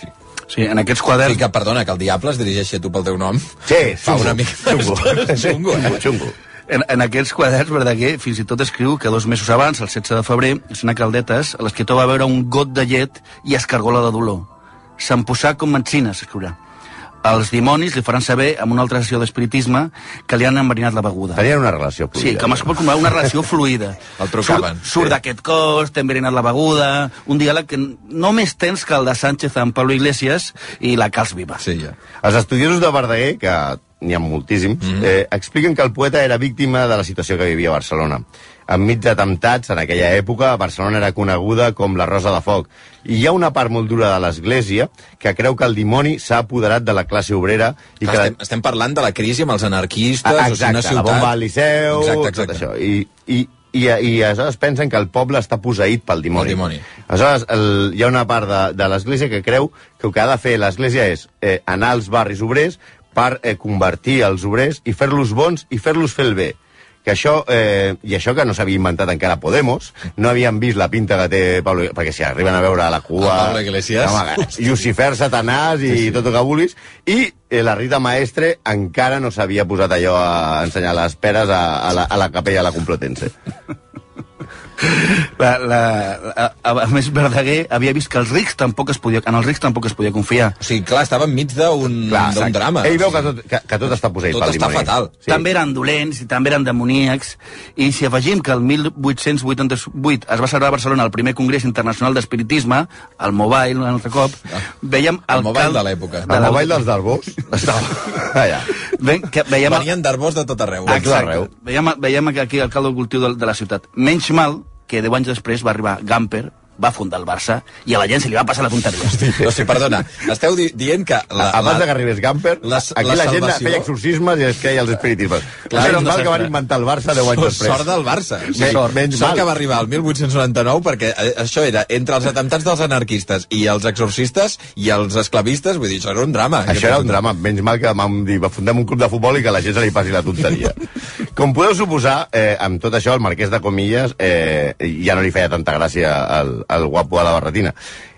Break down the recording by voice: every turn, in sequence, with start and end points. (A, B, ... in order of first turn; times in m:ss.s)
0:00.5-0:01.4 A
0:01.2-0:06.0 B
0:03.6-0:06.3 C
0:06.7-0:16.6 A
0:17.2-0:21.4 A
0:21.3-0:22.7 C
0:22.2-0:31.6 A
0:24.2-0:25.1 B
0:31.6-0:31.9 B
0:32.2-0:48.3 C
0:48.0-0:51.3 B
0:50.2-1:23.3 C
0:51.9-0:52.6 B
0:56.3-0:56.8 B
1:13.2-1:14.6 B
1:24.8-1:30.6 A
1:30.6-1:33.1 B
1:32.1-1:35.4 C
1:34.3-1:35.1 B
1:35.3-1:46.8 A
1:45.3-1:46.5 B
1:46.3-1:48.7 C
1:48.8-1:49.9 A
1:49.6-1:51.2 B
1:50.9-1:51.5 C
1:50.9-1:59.4 A
1:59.2-2:01.9 B
2:01.4-2:07.9 C
2:02.6-2:03.9 B
2:05.7-2:06.3 B
2:05.7-2:06.4 A
2:07.3-2:17.1 B
2:08.5-2:09.5 C
2:08.6-2:08.9 A
2:16.7-2:20.8 C
2:21.3-2:27.7 C